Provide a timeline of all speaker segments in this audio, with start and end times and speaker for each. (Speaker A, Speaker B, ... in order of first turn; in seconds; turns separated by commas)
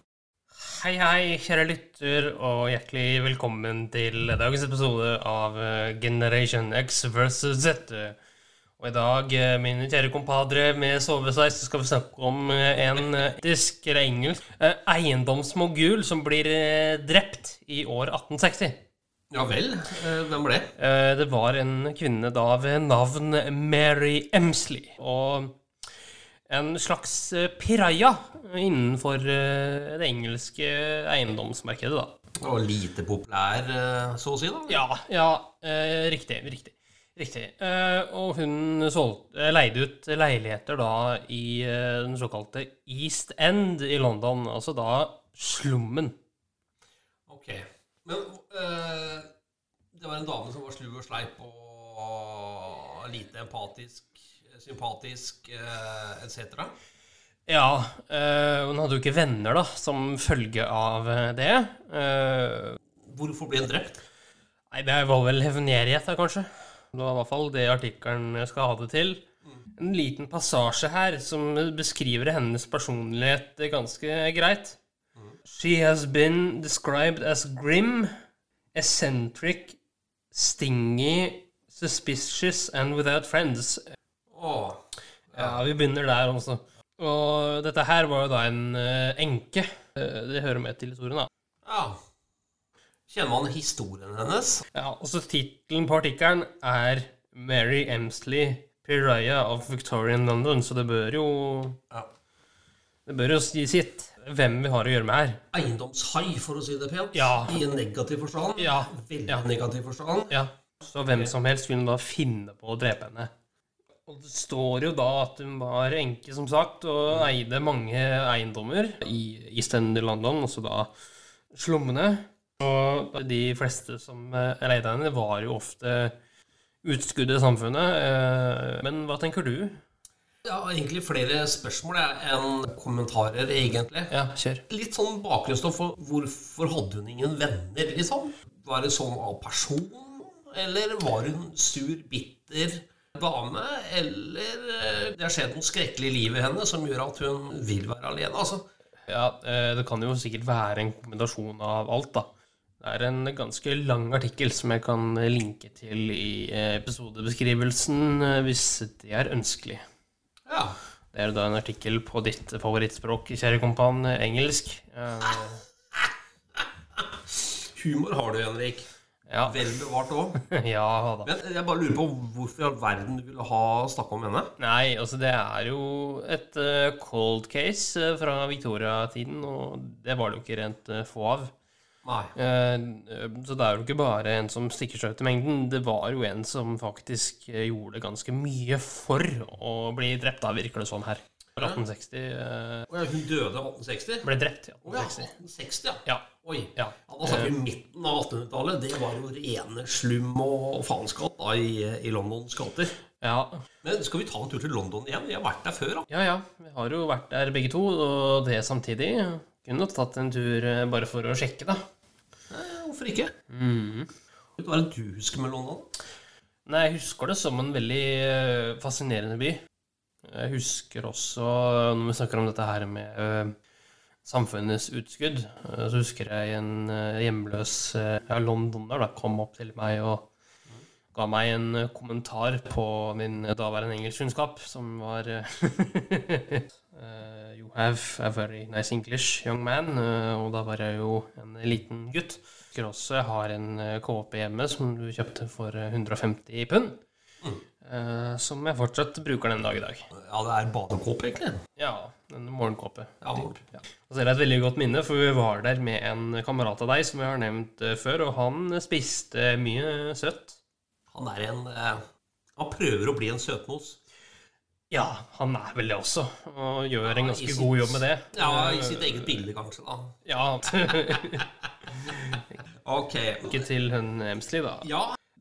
Speaker A: 0.6-8.2, Speaker A: 8.8-18.8, Speaker B: 19.3-20.7, Speaker A: 20.8-25.5, Speaker A: 26.5-32.1, Speaker B: 32.4-34.8, Speaker A: 34.7-46.1, Speaker B: 47.3-49.2, Speaker B: 49.9-56.7, Speaker A: 57.5-62.8, Speaker B: 63.1-64.0, Speaker A: 64.7-69.2, Speaker A: 69.8-74.8, Speaker A: 75.5-78.1, Speaker A: 78.7-79.8, Speaker A: 80.3-83.8, Speaker B: 84.3-85.6, Speaker A: 85.3-91.3, Speaker B: 91.6-92.0, Speaker B: 93.1-94.6, Speaker A: 94.7-101.8, Speaker A: 103.0-105.4, Speaker B: 105.5-110.3, Speaker A: 107.1-107.6, Speaker A: 108.5-109.5, Speaker A: 110.3-113.3, Speaker A: 114.0-120.9, Speaker A: 121.5-126.1, Speaker A: 126.8-129.8, Speaker B: 130.4-134.1, Speaker A: 134.1-134.6, Speaker B: 134.7-148.6, Speaker A: 149.1-152.3, Speaker A: 152.8-159.8, Speaker B: 160.5-160.8, Speaker A: 161.1-165.6, Speaker B: 167.0-168.9, Speaker A: 169.3-169.6, Speaker B: 169.4-170.4, Speaker A: 170.4-171.3, Speaker B: 171.2-174.5, Speaker A: 174.6-181.5, Speaker B: 182.0-182.3, Speaker A: 182.3-192.8, Speaker B: 192.9-194.2, Speaker A: 194.2-195.3, Speaker B: 194.8-202.9, Speaker A: 196.0-197.5, Speaker A: 203.2-203.6, Speaker B: 203.8-206.1, Speaker A: 206.1-211.8, Speaker B: 212.5-213.3, Speaker A: 213.5-214.1, Speaker B: 214.6-215.9, Speaker A: 216.7-219.6, Speaker A: 220.2-223.5, Speaker A: 224.2-230.3, Speaker A: 231.1-247.0, Speaker A: 247.8-250.1, Speaker B: 250.2-251.6, Speaker A: 251.8-260.6, Speaker B: 253.2-253.6, Speaker B: 261.1-262.0, Speaker B: 262.6-264.0, Speaker A: 264.9-269.4, Speaker B: 267.1-270.2, Speaker A: 270.2-271.4, Speaker B: 270.8-271.2, Speaker B: 272.8-273.6, Speaker A: 273.4-274.9, Speaker B: 274.8-275.2